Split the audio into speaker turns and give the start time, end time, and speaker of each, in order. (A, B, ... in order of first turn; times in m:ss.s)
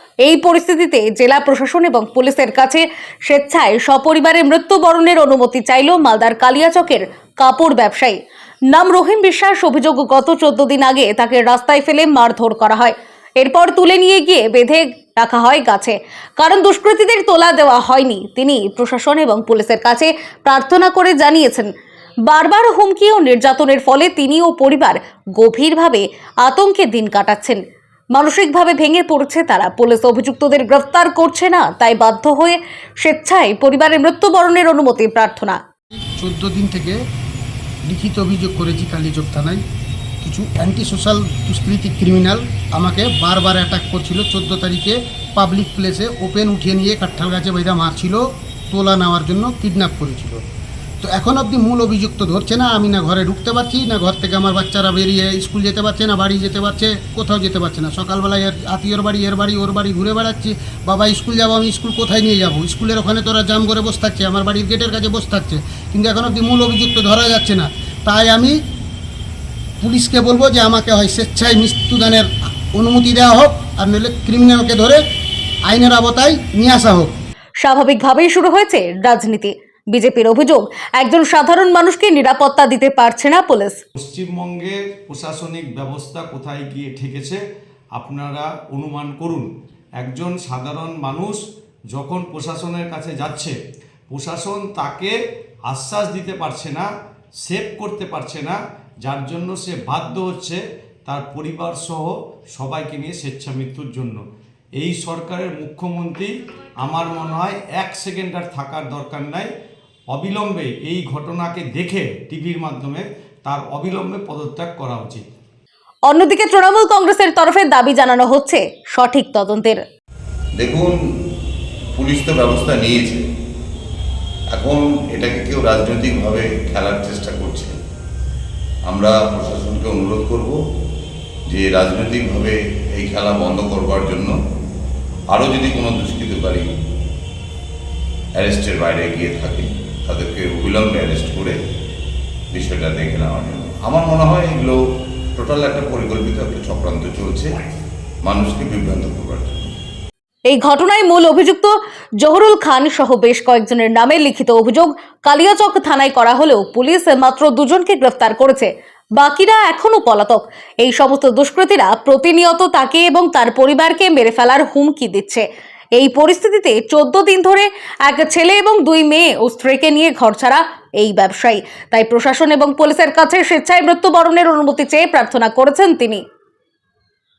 0:00.2-0:08.2 A
0:08.7-0:21.7 A
0:22.3-0:27.6 A
0:28.1-0:35.6 A
0:36.2-0:37.0 B
0:37.9-0:39.6 B
0:40.2-0:50.4 B
0:51.0-1:08.6 B
1:09.8-1:15.0 B
1:15.7-1:17.1 B
1:17.6-1:23.8 A
1:24.0-1:27.4 C
1:28.0-1:29.5 C
1:30.0-1:31.4 C
1:31.9-1:33.5 C
1:34.1-1:35.1 C
1:35.7-1:36.9 C
1:37.4-1:44.2 C
1:44.8-1:46.3 C
1:46.8-1:49.5 C
1:50.1-1:55.2 C
1:56.1-1:59.8 A
2:00.6-2:00.9 D
2:02.0-2:03.2 D
2:04.5-2:07.8 D
2:08.9-2:10.6 D
2:11.5-2:14.3 D
2:15.3-2:16.7 D
2:18.4-2:21.6 D
2:22.5-2:24.8 D
2:25.4-2:27.5 D
2:28.2-2:29.7 D
2:30.5-2:45.4 A
2:46.0-2:56.2 A